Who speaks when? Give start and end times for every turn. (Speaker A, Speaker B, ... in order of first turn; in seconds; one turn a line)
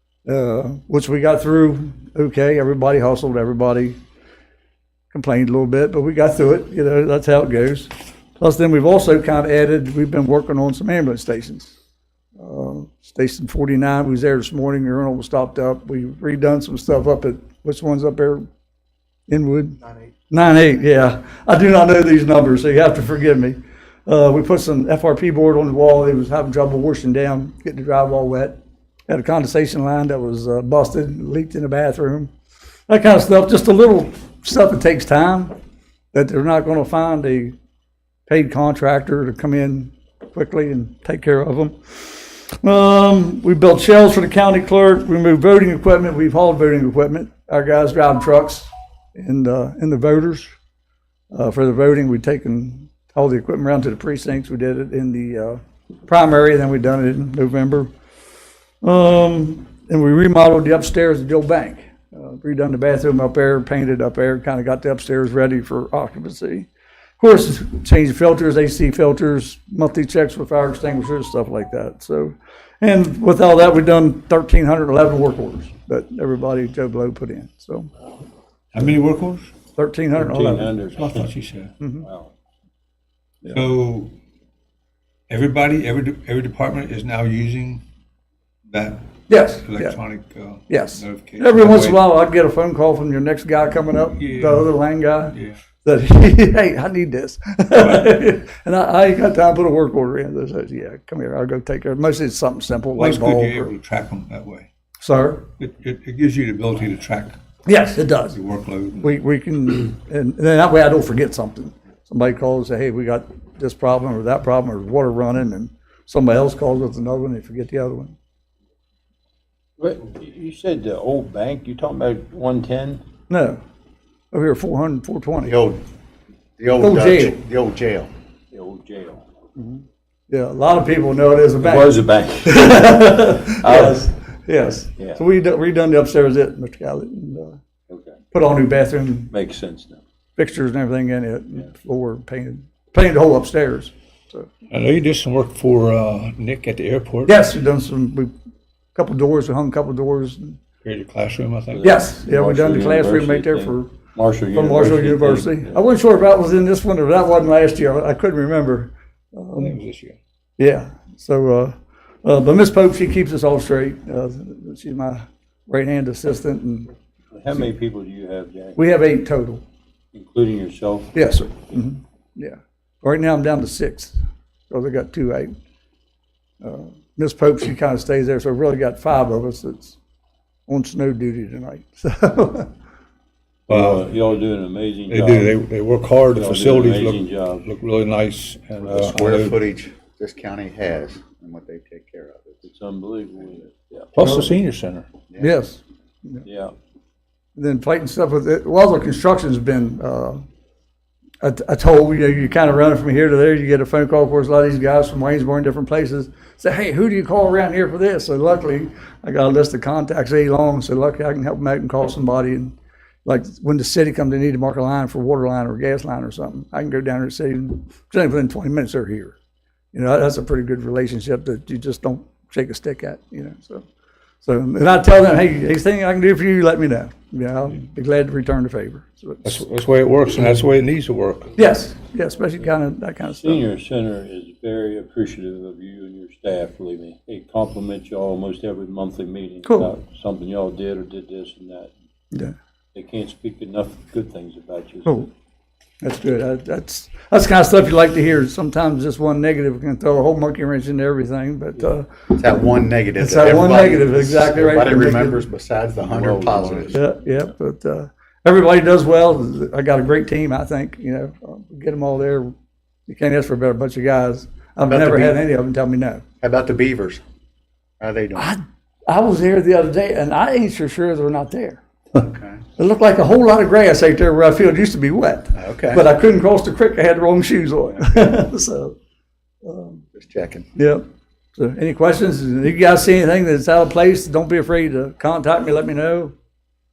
Speaker A: 0.2-4.0
Speaker A: 5.1-11.7
Speaker A: 12.4-18.4
Speaker A: 19.3-32.3
Speaker A: 32.9-35.5
Speaker A: 36.1-37.5
Speaker A: 38.3-50.5
Speaker A: 51.3-57.9
Speaker A: 58.8-66.7
Speaker A: 67.2-77.9
Speaker B: 78.7-79.5
Speaker A: 79.8-80.7
Speaker C: 80.2-81.4
Speaker B: 81.0-81.7
Speaker A: 81.8-82.0
Speaker C: 82.0-82.3
Speaker B: 83.5-84.1
Speaker B: 85.3-87.8
Speaker B: 88.7-92.0
Speaker A: 89.3-90.0
Speaker A: 90.7-103.7
Speaker B: 94.2-94.7
Speaker B: 95.3-95.6
Speaker B: 97.8-98.1
Speaker B: 103.0-104.7
Speaker A: 105.0-105.5
Speaker B: 105.6-107.4
Speaker A: 107.7-108.4
Speaker B: 108.3-109.1
Speaker A: 109.0-118.2
Speaker C: 119.8-123.0
Speaker A: 123.3-123.6
Speaker A: 124.3-125.6
Speaker D: 125.5-125.8
Speaker D: 126.6-128.1
Speaker A: 126.8-127.4
Speaker C: 128.5-129.2
Speaker A: 129.6-137.6
Speaker C: 131.6-134.1
Speaker C: 137.9-138.2
Speaker A: 138.3-139.3
Speaker C: 139.3-140.0
Speaker A: 140.4-144.5
Speaker B: 144.7-147.3
Speaker A: 147.2-148.3
Speaker A: 148.9-150.6
Speaker B: 150.8-151.9
Speaker C: 151.7-155.8
Speaker A: 151.8-153.9
Speaker A: 154.5-159.8
Speaker B: 159.6-160.2
Speaker A: 160.6-166.9
Speaker C: 167.3-168.8
Speaker A: 168.8-169.6
Speaker C: 170.1-171.2
Speaker A: 171.1-174.2
Speaker A: 174.7-175.5
Speaker A: 176.6-180.0
Speaker A: 180.7-182.7
Speaker C: 183.7-185.6
Speaker B: 183.7-184.1
Speaker B: 185.1-189.6
Speaker C: 186.3-187.7
Speaker D: 188.8-192.6
Speaker C: 192.6-194.2
Speaker B: 194.1-195.1
Speaker A: 194.2-194.5
Speaker A: 195.4-196.4
Speaker C: 196.4-196.7
Speaker A: 197.6-200.4
Speaker A: 201.4-219.4
Speaker A: 219.9-223.8
Speaker A: 224.4-229.6
Speaker B: 229.4-231.5
Speaker A: 231.6-233.6
Speaker C: 233.2-241.9
Speaker A: 239.6-239.9
Speaker C: 242.9-245.1
Speaker A: 246.0-252.4
Speaker D: 252.3-257.0
Speaker A: 253.2-255.4
Speaker C: 256.0-257.1
Speaker A: 256.9-262.5
Speaker A: 263.1-266.2
Speaker D: 264.9-265.4
Speaker D: 266.4-267.2
Speaker D: 268.0-268.5
Speaker A: 268.4-271.8
Speaker D: 272.2-272.6
Speaker A: 272.8-278.9
Speaker D: 275.5-276.0
Speaker A: 279.6-280.0
Speaker D: 280.1-280.7
Speaker A: 280.8-281.0
Speaker A: 281.5-286.3